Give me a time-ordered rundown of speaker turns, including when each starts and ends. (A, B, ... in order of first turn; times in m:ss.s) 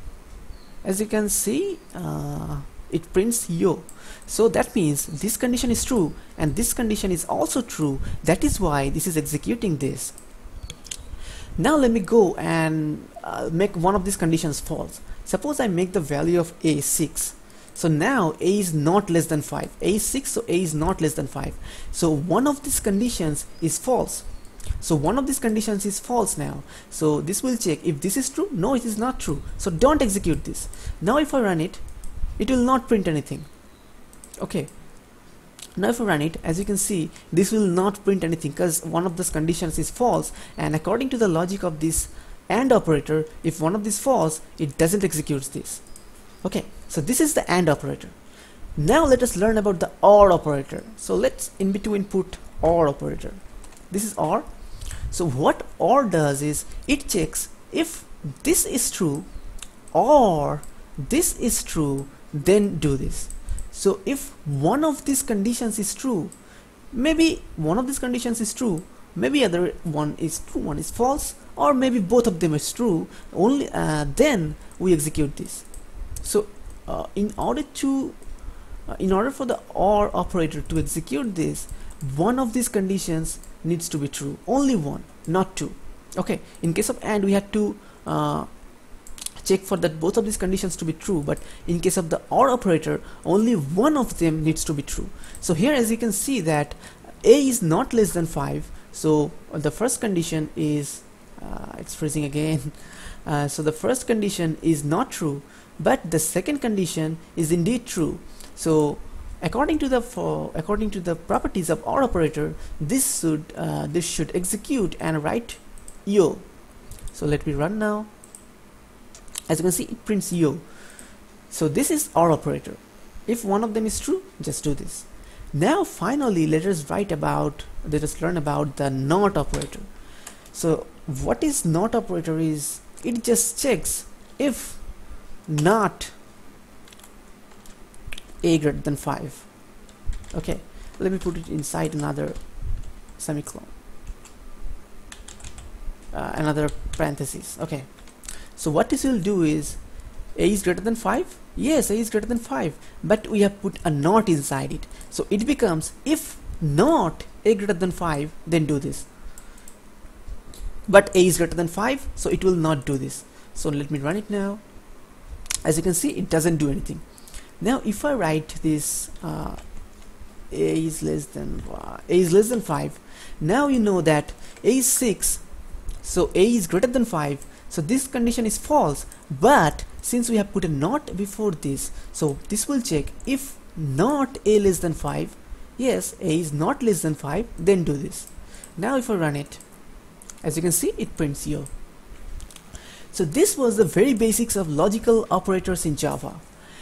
0:00.8-0:10.1 A
0:11.6-0:24.2 A
0:24.8-0:31.8 A
0:32.4-0:33.5 A
0:34.4-0:34.7 A
0:35.8-0:45.8 A
0:46.4-0:48.1 A
0:48.8-0:59.3 A
0:59.9-1:06.3 A
1:06.9-1:15.6 A
1:16.2-1:18.2 A
1:18.9-1:28.5 A
1:29.4-1:56.4 A
1:57.1-1:58.1 A
1:59.5-2:00.6 A
2:01.5-2:09.9 A
2:10.5-2:14.8 A
2:15.4-2:16.1 A
2:18.4-2:19.5 A
2:20.3-2:22.6 A
2:23.2-2:23.7 A
2:26.1-2:27.9 A
2:28.5-2:29.8 A
2:30.3-2:39.1 A
2:40.9-2:44.6 A
2:45.6-2:47.0 A
2:47.6-2:49.6 A
2:50.5-2:55.4 A
2:56.0-3:09.6 A
3:10.4-3:11.7 A
3:13.1-3:16.4 A